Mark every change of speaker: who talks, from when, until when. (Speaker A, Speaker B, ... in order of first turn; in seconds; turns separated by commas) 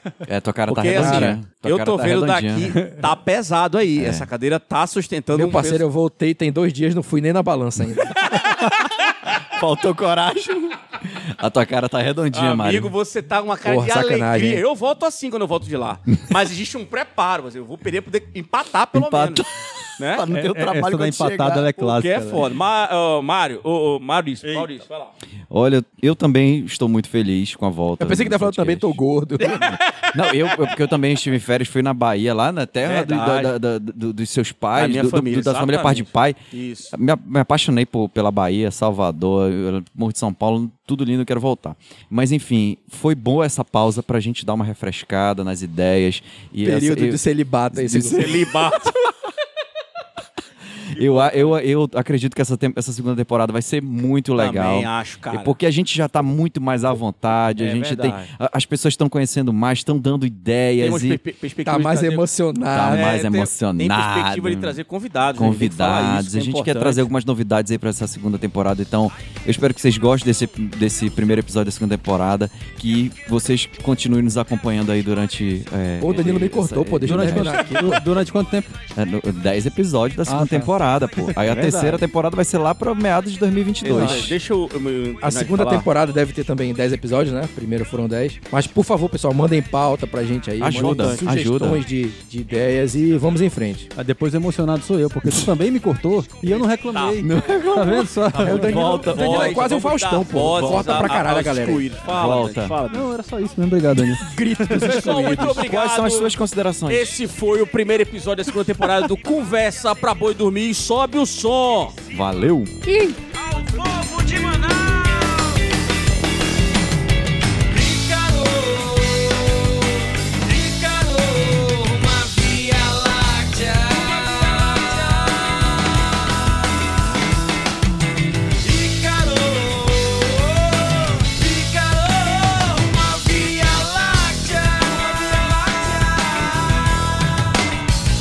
Speaker A: 0.2-2.8, Speaker B: 0.7-5.8, Speaker C: 0.9-1.3, Speaker A: 3.9-4.3, Speaker C: 5.3-8.2, Speaker A: 9.4-12.9, Speaker B: 12.3-19.4, Speaker C: 13.6-14.6, Speaker A: 18.9-21.7, Speaker B: 20.0-20.2, Speaker D: 20.3-22.4, Speaker B: 21.8-25.1, Speaker A: 25.5-29.0, Speaker C: 28.0-29.8, Speaker A: 29.6-36.4, Speaker B: 32.8-33.5, Speaker B: 34.7-36.9, Speaker A: 36.9-48.5, Speaker C: 46.6-48.4, Speaker B: 47.9-49.0, Speaker A: 50.9-61.2, Speaker B: 50.9-51.6, Speaker B: 54.4-55.5, Speaker B: 57.6-58.3, Speaker B: 60.8-62.3, Speaker C: 61.6-63.1, Speaker A: 62.7-64.8, Speaker B: 62.9-67.1, Speaker A: 65.3-78.0, Speaker C: 76.0-78.0, Speaker D: 77.0-78.7, Speaker A: 78.9-84.3, Speaker D: 80.3-80.7, Speaker B: 81.4-82.0, Speaker B: 83.8-85.9, Speaker D: 83.8-84.3, Speaker C: 85.2-93.9, Speaker A: 90.6-91.8, Speaker D: 90.7-91.2, Speaker D: 93.9-98.8, Speaker B: 96.5-97.2, Speaker A: 97.2-99.8, Speaker C: 98.4-101.9, Speaker B: 98.8-103.1, Speaker A: 100.7-100.9, Speaker A: 102.0-102.8, Speaker D: 102.9-105.2, Speaker C: 104.2-105.6, Speaker B: 104.7-112.0, Speaker A: 105.4-107.1, Speaker A: 112.1-112.8, Speaker E: 112.8-115.7, Speaker E: 117.7-126.7, Speaker E: 128.6-137.5